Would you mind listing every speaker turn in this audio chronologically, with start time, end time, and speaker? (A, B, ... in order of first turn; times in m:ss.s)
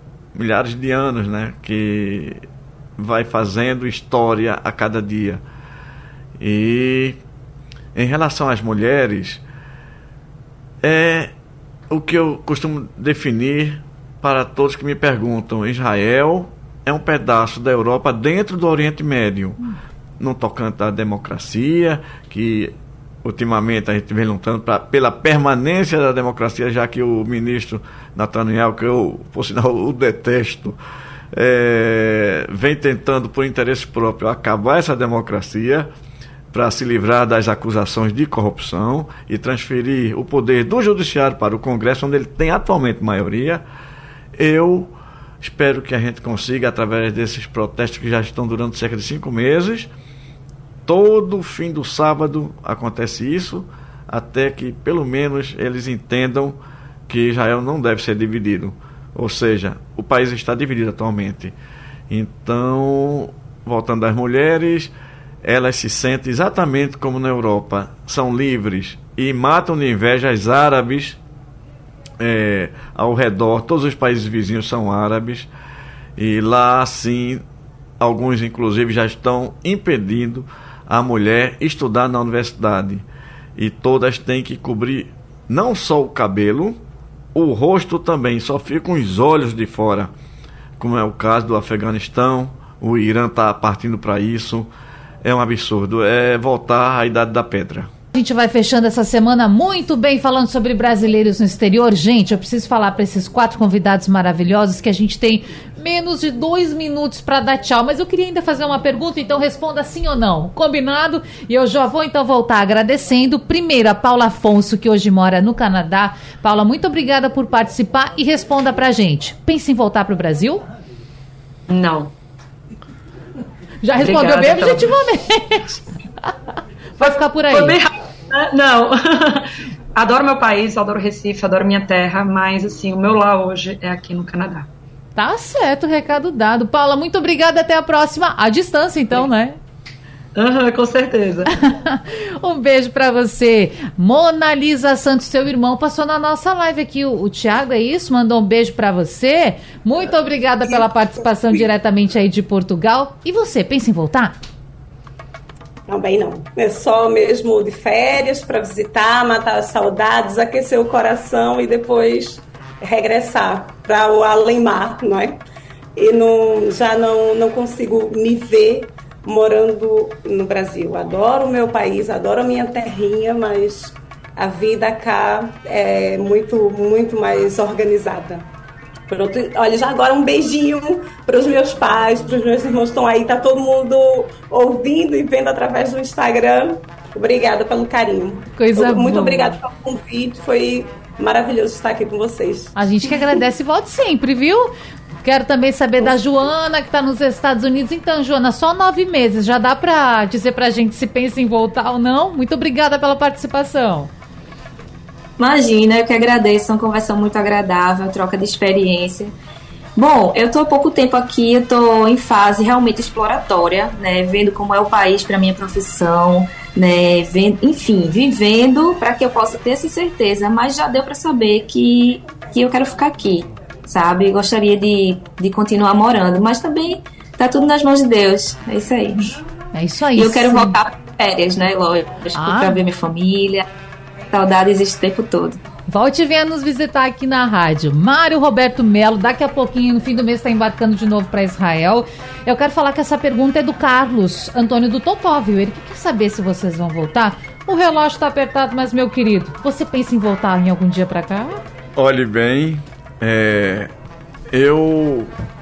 0:00.3-0:02.4 A
0:03.0-0:05.4 A
0:06.4-0:07.2 A
0:07.9-0:09.4 A
0:10.8-0:11.3 A
0:11.9-0:19.6 A
0:20.2-0:22.7 A
0:23.2-0:30.8 A
0:31.3-0:35.9 A
0:36.5-0:43.6 A
0:44.4-0:49.9 A
0:50.8-1:01.5 A
1:02.1-1:11.2 A
1:12.2-1:15.5 A
1:16.2-1:17.4 A
1:18.0-1:26.8 A
1:27.3-1:30.1 A
1:30.8-1:34.7 A
1:35.2-1:37.9 A
1:38.1-2:00.6 B
2:01.7-2:02.1 C
2:03.8-2:05.7 B
2:04.0-2:04.9 C
2:07.0-2:07.8 B
2:07.0-2:14.7 C
2:15.2-2:19.6 B
2:20.3-2:21.5 C
2:21.5-2:34.4 B
2:35.9-2:45.4 D
2:46.0-2:58.5 D
2:59.1-3:12.8 D
3:08.5-3:09.6 B
3:12.8-3:14.7 B
3:15.2-3:24.1 B
3:25.4-3:29.3 E
3:30.0-3:49.3 E
3:49.7-3:50.8 B
3:50.2-3:53.6 E
3:52.3-3:52.8 B
3:54.3-3:55.6 E
3:55.9-4:11.6 B
4:12.0-4:13.9 A
4:14.5-4:15.3 A